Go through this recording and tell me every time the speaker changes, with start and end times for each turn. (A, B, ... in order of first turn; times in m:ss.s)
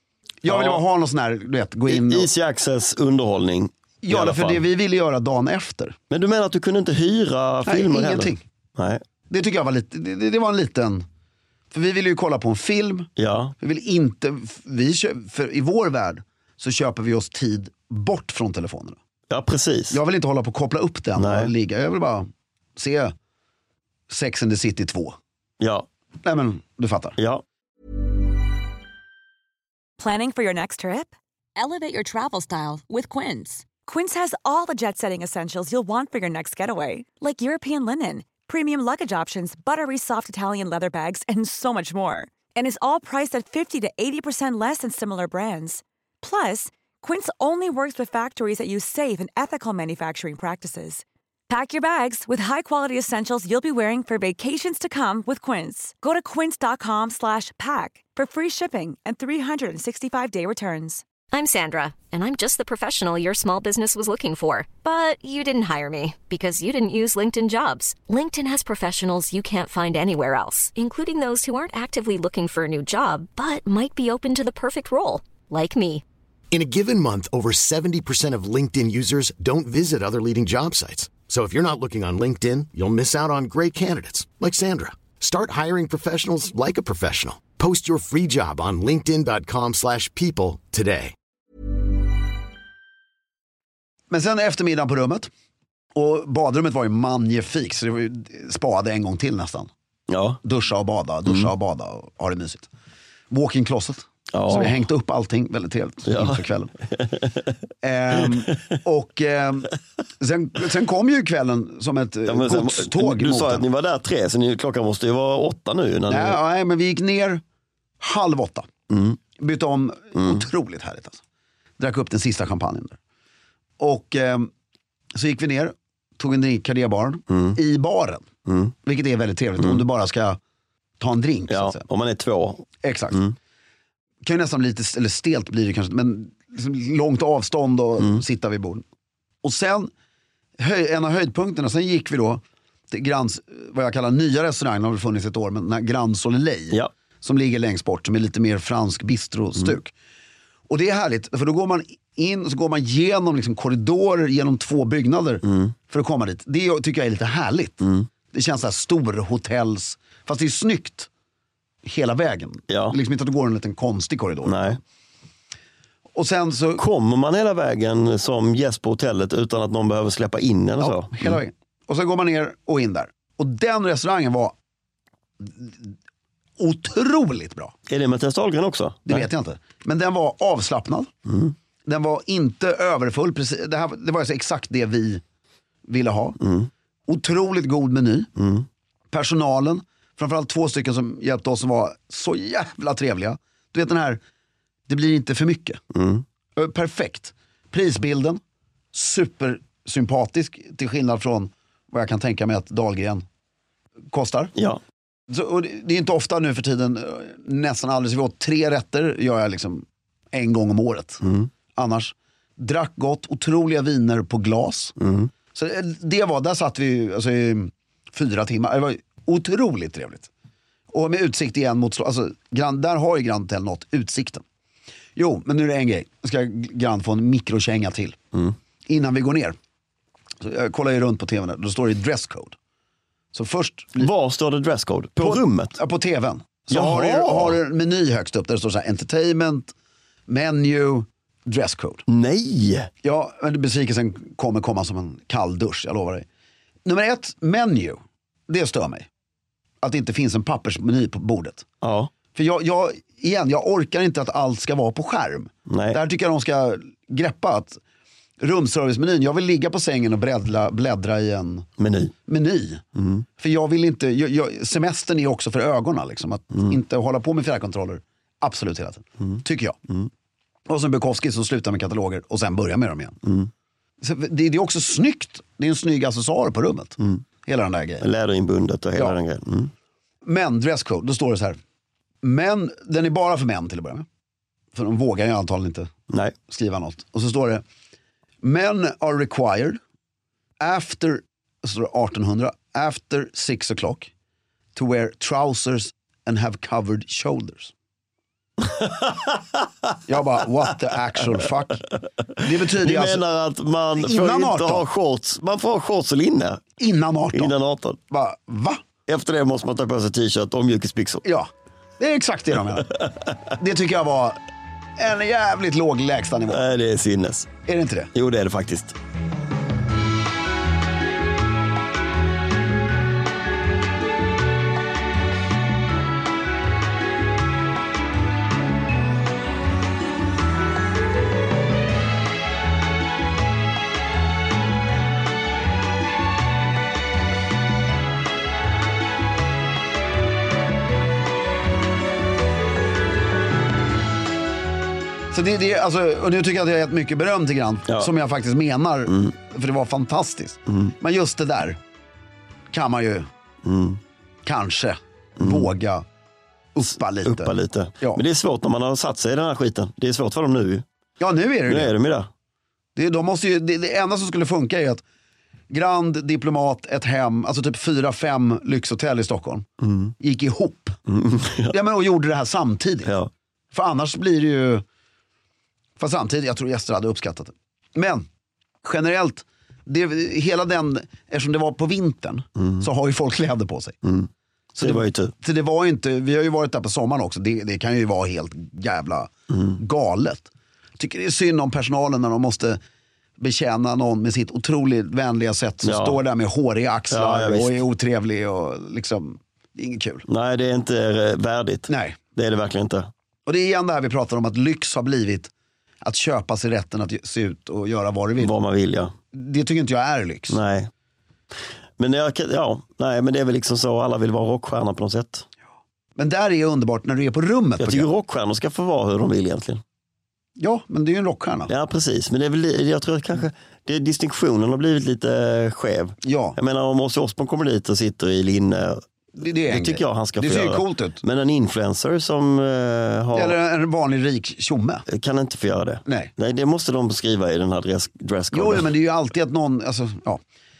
0:00.4-0:02.3 A
0:00.5-0:00.8 B
0:01.9-0:04.6 B
0:04.0-0:06.0 A
0:06.1-0:09.0 B
0:07.7-0:08.4 A
0:09.3-0:11.0 A
0:11.7-0:13.1 A
0:13.2-0:13.6 B
0:13.6-0:19.0 A
0:19.3-0:20.0 B
0:19.9-0:23.1 A
0:21.2-0:21.5 B
0:24.1-0:25.2 A
0:25.6-0:25.9 B
0:26.2-0:27.2 A
0:27.2-0:27.4 B
0:30.0-0:31.1 C
0:31.6-0:33.7 D
0:33.9-1:01.0 C
1:01.3-1:16.0 E
1:16.5-1:31.2 F
1:34.1-1:35.3 A
1:35.9-1:39.7 A
1:40.1-1:40.4 B
1:40.4-1:42.7 A
1:43.3-1:46.7 A
1:44.3-1:44.8 B
1:46.1-1:47.6 B
1:47.8-1:53.7 A
1:48.1-1:48.6 B
1:52.3-1:56.4 B
1:56.1-1:57.4 A
1:58.0-1:58.7 A
1:58.9-1:59.2 B
1:59.4-2:01.2 A
2:00.2-2:00.5 B
2:01.8-2:03.0 A
2:03.8-2:04.5 A
2:05.1-2:08.2 A
2:07.3-2:07.6 B
2:08.5-2:08.7 B
2:08.8-2:10.4 A
2:11.0-2:11.8 A
2:11.5-2:13.4 B
2:12.8-2:13.3 A
2:14.2-2:18.8 A
2:19.4-2:19.9 A
2:20.6-2:29.9 A
2:30.7-2:41.1 A
2:35.4-2:35.7 B
2:37.8-2:38.1 B
2:41.8-2:44.8 A
2:42.7-2:43.0 B
2:44.4-2:44.8 B
2:46.2-2:46.8 A
2:46.8-2:51.4 B
2:50.8-2:54.5 A
2:55.4-2:56.0 A
2:56.6-2:57.7 A
2:57.9-2:59.3 B
2:59.1-3:01.1 A
3:01.3-3:01.6 B
3:01.8-3:05.2 A
3:05.9-3:06.4 A
3:06.4-3:06.7 B
3:07.1-3:08.3 A
3:08.4-3:08.7 B
3:09.1-3:14.2 A
3:14.9-3:15.8 A
3:15.9-3:16.2 B
3:16.6-3:18.4 A
3:18.9-3:23.2 A
3:24.1-3:24.5 A
3:24.6-3:24.8 B
3:25.3-3:35.0 A
3:31.2-3:31.5 B
3:35.0-3:35.3 B
3:35.5-3:40.3 A
3:40.9-3:44.4 A
3:45.2-3:48.2 A
3:48.9-3:49.6 A
3:50.4-3:52.6 A
3:53.3-3:54.1 A
3:54.0-3:55.8 B
3:55.2-3:59.7 A
3:56.7-3:57.6 B
4:00.3-4:02.0 A
4:02.1-4:02.9 B
4:03.0-4:06.3 A
4:06.8-4:09.1 A
4:09.8-4:11.7 A
4:11.8-4:12.1 B
4:12.3-4:17.8 A
4:15.7-4:16.0 B
4:18.4-4:21.7 A
4:21.8-4:22.1 B
4:22.3-4:22.8 A
4:23.0-4:23.2 B
4:23.4-4:29.8 A
4:30.7-4:33.2 A
4:33.2-4:33.5 B
4:34.0-4:38.0 A
4:38.0-4:39.7 B
4:40.2-4:41.6 A
4:42.2-4:44.1 A
4:44.7-4:45.9 A
4:46.1-4:46.4 B
4:46.5-4:47.6 A
4:48.4-4:49.8 A
4:50.6-4:54.1 A
4:54.8-4:57.7 A
4:58.6-5:00.0 B
5:00.1-5:01.8 A
5:01.4-5:06.6 B
5:02.4-5:03.2 A
5:04.0-5:04.9 A
5:06.8-5:07.6 A
5:07.3-5:08.0 B
5:08.1-5:08.8 A
5:09.1-5:11.2 B
5:11.2-5:12.9 A
5:12.8-5:13.4 B
5:13.6-5:14.4 A
5:15.0-5:16.6 A
5:16.5-5:17.5 B
5:17.7-5:18.1 A
5:18.1-5:19.0 B
5:45.3-5:51.8 A
5:49.1-5:49.3 B
5:52.7-5:53.3 A
5:53.6-5:54.0 B
5:54.4-5:56.0 A
5:55.4-5:55.7 B
5:56.8-5:58.2 A
5:57.2-6:00.8 B
6:01.2-6:02.0 A
6:01.7-6:02.3 B
6:03.0-6:05.0 A
6:05.7-6:09.7 A
6:09.8-6:10.1 B
6:10.2-6:11.0 A
6:11.1-6:11.8 B
6:11.7-6:13.1 A
6:13.0-6:13.3 B
6:13.7-6:14.8 A
6:16.0-6:18.3 A
6:18.8-6:24.0 A
6:22.6-6:22.8 B
6:24.0-6:25.3 B
6:24.8-6:30.5 A
6:29.5-6:29.8 B
6:31.0-6:32.8 A
6:33.4-6:40.3 A
6:35.8-6:36.2 B
6:37.1-6:37.8 B
6:40.3-6:43.1 B
6:41.9-6:42.2 A
6:43.5-6:45.5 A
6:46.0-6:48.5 A
6:48.4-6:49.1 B
6:49.3-6:50.6 A
6:50.5-6:50.9 B
6:52.0-6:55.5 B
6:56.2-6:58.1 A
6:57.8-6:59.8 B
7:00.6-7:01.7 A
7:01.7-7:09.0 B
7:06.2-7:06.6 A
7:09.4-7:11.2 A
7:09.7-7:13.6 B
7:13.3-7:15.1 A
7:15.1-7:18.9 B
7:16.1-7:16.3 A
7:18.5-7:20.4 A